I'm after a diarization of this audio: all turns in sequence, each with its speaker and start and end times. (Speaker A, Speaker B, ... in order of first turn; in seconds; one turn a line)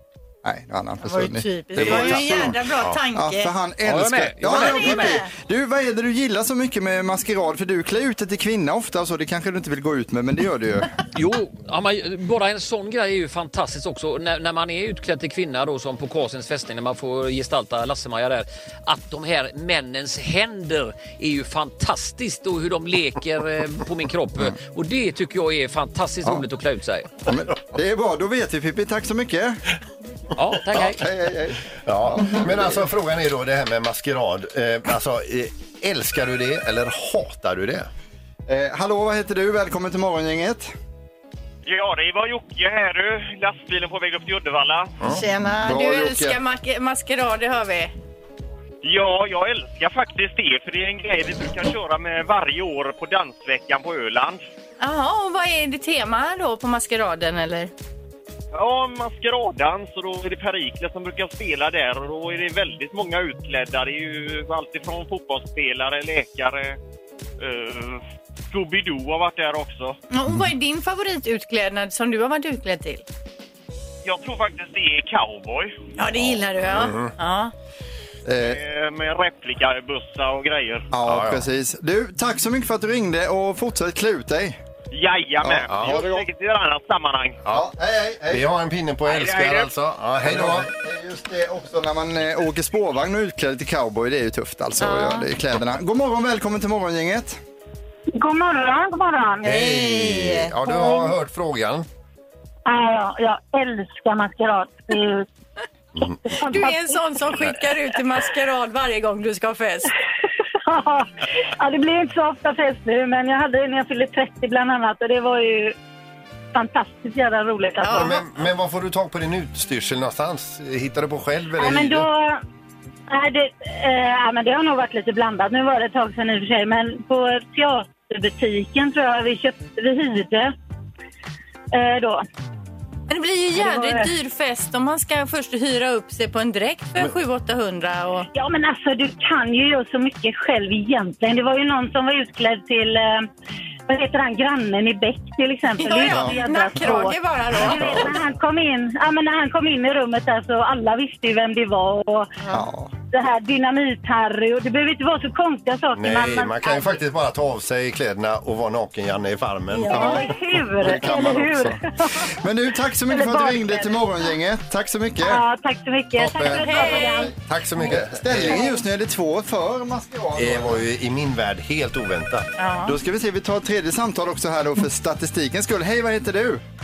Speaker A: 0.4-2.6
Speaker B: 1.0-3.5
Speaker C: 1.8-3.0
Speaker A: 3.1-10.9
Speaker D: 3.8-5.2
Speaker B: 4.5-5.3
Speaker D: 11.1-27.1
Speaker A: 27.2-29.6
Speaker D: 30.4-31.0
Speaker A: 30.7-32.9
Speaker C: 31.8-37.9
Speaker A: 38.5-40.7
Speaker E: 41.6-44.9
Speaker B: 45.1-47.9
Speaker A: 45.6-46.4
Speaker E: 48.8-54.4
Speaker B: 54.8-57.7
Speaker E: 58.5-66.8
Speaker E: 67.4-69.9
Speaker B: 70.1-73.0
Speaker E: 74.0-75.7
Speaker B: 76.0-77.5
Speaker C: 76.2-77.1
Speaker A: 78.2-78.6
Speaker E: 78.3-80.9
Speaker A: 80.9-84.6
Speaker C: 81.0-81.5
Speaker E: 84.9-87.4
Speaker A: 85.4-86.2
Speaker C: 85.7-86.1
Speaker C: 87.4-87.7
Speaker A: 87.5-88.5
Speaker C: 88.3-90.7
Speaker E: 89.1-89.7
Speaker A: 90.2-97.4
Speaker B: 94.8-95.3
Speaker F: 98.2-99.5
Speaker B: 99.4-100.8
Speaker C: 99.4-101.8
Speaker F: 100.7-101.1
Speaker F: 102.7-105.2
Speaker F: 106.3-106.9
Speaker B: 106.4-109.9
Speaker F: 110.6-115.8
Speaker F: 116.5-118.2
Speaker B: 117.8-118.2
Speaker C: 117.9-122.1
Speaker F: 121.6-122.4
Speaker F: 123.1-130.5
Speaker F: 131.7-132.2
Speaker B: 133.1-138.3
Speaker F: 133.5-134.1
Speaker F: 138.3-143.3
Speaker F: 143.9-152.3
Speaker B: 145.8-148.2
Speaker A: 152.5-152.9
Speaker F: 153.1-157.0
Speaker C: 155.9-160.2
Speaker F: 159.8-162.3
Speaker B: 159.8-160.1
Speaker A: 159.9-165.4
Speaker F: 163.1-164.3
Speaker F: 165.2-167.4
Speaker C: 166.2-168.7
Speaker B: 166.5-167.3
Speaker A: 167.8-170.8
Speaker C: 170.4-172.5
Speaker B: 172.6-173.0
Speaker A: 172.8-176.6